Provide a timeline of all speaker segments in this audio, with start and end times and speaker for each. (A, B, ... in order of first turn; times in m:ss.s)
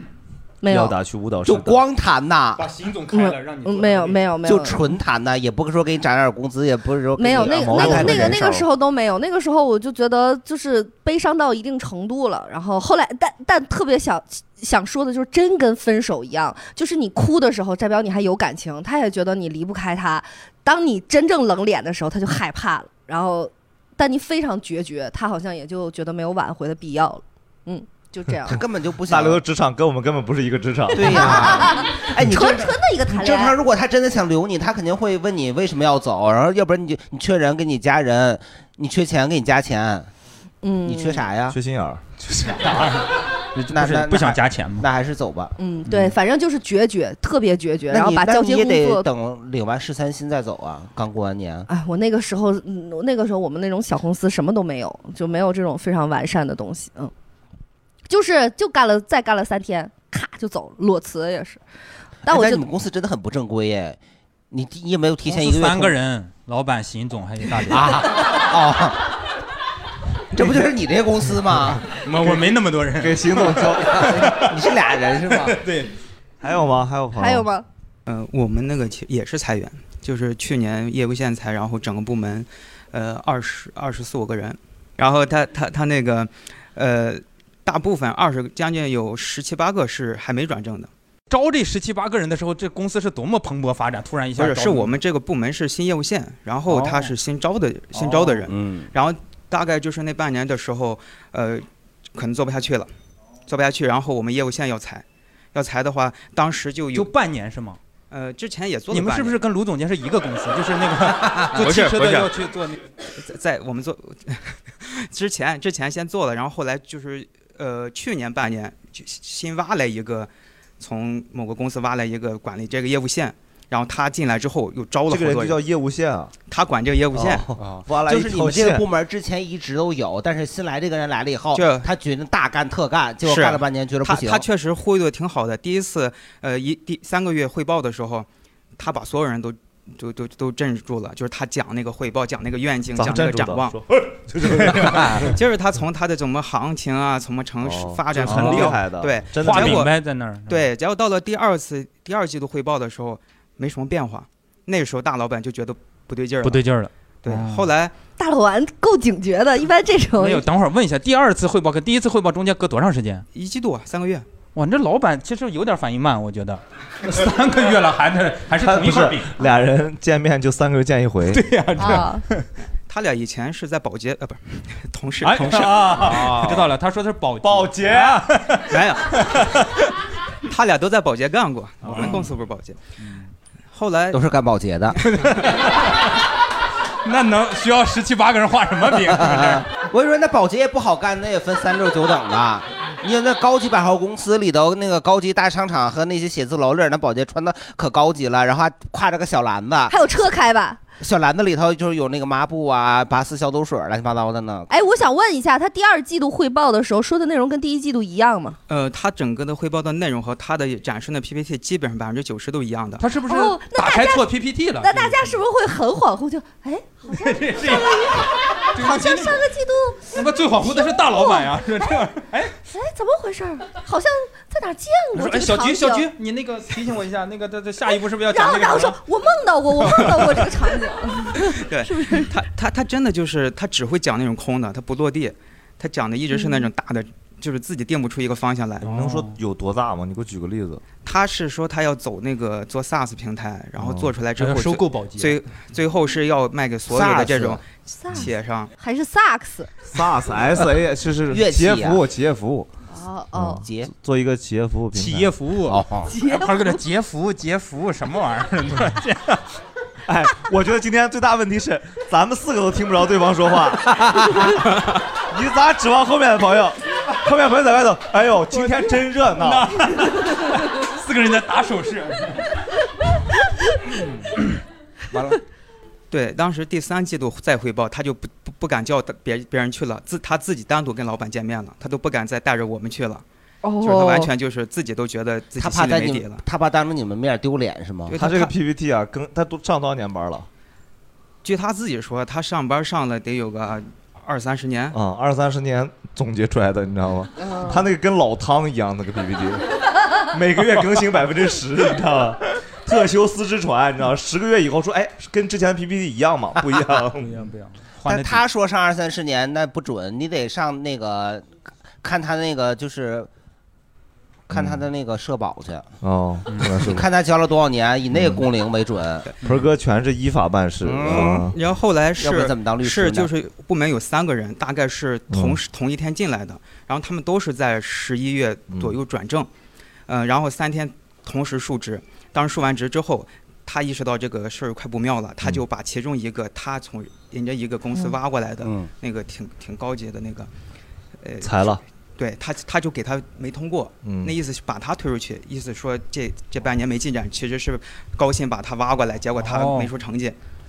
0:00.6-0:01.0 A
0:00.7-0:01.8 B
0:01.4-0:02.6 C
0:02.6-0:04.3 D
0:03.1-0:04.8 A
0:04.4-0:08.4 C
0:07.2-0:28.6 A
0:07.4-0:08.7 B
0:28.5-0:29.4 C
0:29.1-0:31.7 B
0:30.9-0:40.1 C
0:31.0-0:33.5 A
0:40.6-0:41.2 A
0:40.8-0:41.6 C
0:41.5-0:42.0 B
0:42.3-0:44.9 D
0:43.7-0:45.5 C
0:45.6-0:49.0 A
0:45.9-0:46.2 D
0:47.9-0:51.7 C
0:51.7-0:57.1 A
0:58.1-1:01.6 A
1:02.3-1:02.6 A
1:02.3-1:04.0 C
1:04.5-1:06.0 C
1:05.2-1:08.1 D
1:07.7-1:09.0 C
1:10.3-1:11.9 C
1:11.9-1:14.6 D
1:13.0-1:14.3 B
1:13.9-1:15.6 C
1:15.3-1:15.9 D
1:16.4-1:17.5 B
1:17.2-1:17.6 A
1:18.1-1:30.9 E
1:31.3-1:35.0 D
1:34.4-1:42.9 E
1:36.7-1:37.1 D
1:37.9-1:38.5 D
1:38.5-1:38.9 C
1:43.5-1:47.1 E
1:46.9-1:47.8 D
1:48.1-1:49.4 E
1:48.9-1:52.8 D
1:51.4-1:52.3 E
1:53.1-2:05.6 E
2:05.1-2:06.3 B
2:06.5-2:07.5 E
2:07.1-2:08.8 B
2:08.0-2:14.5 C
2:11.5-2:11.9 E
2:13.2-2:23.8 E
2:23.0-2:25.4 B
2:25.2-2:29.9 E
2:27.6-2:29.9 B
2:28.2-2:28.8 D
2:29.4-2:30.7 D
2:30.5-2:36.6 E
2:36.4-2:37.7 D
2:37.2-2:37.9 E
2:38.2-2:40.4 A
2:40.2-2:43.3 D
2:43.3-2:44.3 E
2:44.5-2:49.4 D
2:48.6-2:51.5 B
2:51.3-2:52.5 D
2:51.8-2:52.2 A
2:52.9-2:56.1 E
2:55.2-2:59.7 D
2:55.8-2:56.6 B
2:57.4-2:58.3 B
2:58.7-2:59.2 E
3:00.5-3:02.8 E
3:01.8-3:02.3 D
3:03.0-3:03.3 D
3:03.7-3:04.2 E
3:04.1-3:05.0 C
3:05.1-3:05.7 D
3:07.0-3:09.7 D
3:09.1-3:19.9 C
3:19.9-3:20.8 A
3:21.0-3:24.7 C
3:24.7-3:28.6 A
3:28.7-3:33.0 E
3:33.0-3:35.4 D
3:33.3-3:34.3 A
3:34.8-3:41.5 A
3:37.1-3:39.5 D
3:40.1-3:42.5 D
3:42.7-3:46.1 A
3:45.1-3:49.0 D
3:48.3-3:52.3 A
3:49.8-3:50.3 D
3:51.4-3:58.9 E
3:58.8-3:59.4 D
3:58.8-4:00.8 B
4:01.0-4:08.7 E
4:03.8-4:04.1 B
4:04.4-4:05.4 D
4:06.9-4:07.6 C
4:08.0-4:09.7 A
4:09.9-4:12.7 B
4:11.3-4:12.0 C
4:12.9-4:13.6 A
4:13.4-4:15.3 B
4:13.4-4:13.9 C
4:14.9-4:19.5 D
4:15.7-4:16.1 C
4:16.1-4:16.8 A
4:20.1-4:29.9 B
4:24.0-4:24.3 C
4:29.4-4:32.4 D
4:36.1-4:43.2 E
4:43.6-4:44.3 A
4:43.8-4:46.4 E
4:45.6-4:48.2 C
4:48.1-4:48.5 E
4:48.2-4:50.5 B
4:51.4-4:55.0 E
4:54.9-4:59.7 B
5:00.2-5:07.4 B
5:07.2-5:08.4 D
5:08.0-5:11.5 C
5:12.0-5:13.3 C
5:14.5-5:15.9 C
5:14.5-5:14.8 B
5:16.0-5:17.0 B
5:16.5-5:16.8 D
5:16.8-5:19.3 C
5:18.1-5:18.4 B
5:19.4-5:21.5 B
5:20.8-5:21.5 C
5:21.1-5:29.5 E
5:22.2-5:23.3 C
5:25.3-5:25.6 B
5:30.1-5:40.5 E
5:38.6-5:38.9 C
5:41.2-5:50.4 E
5:41.4-5:41.8 B
5:44.0-5:44.4 B
5:49.4-5:49.9 D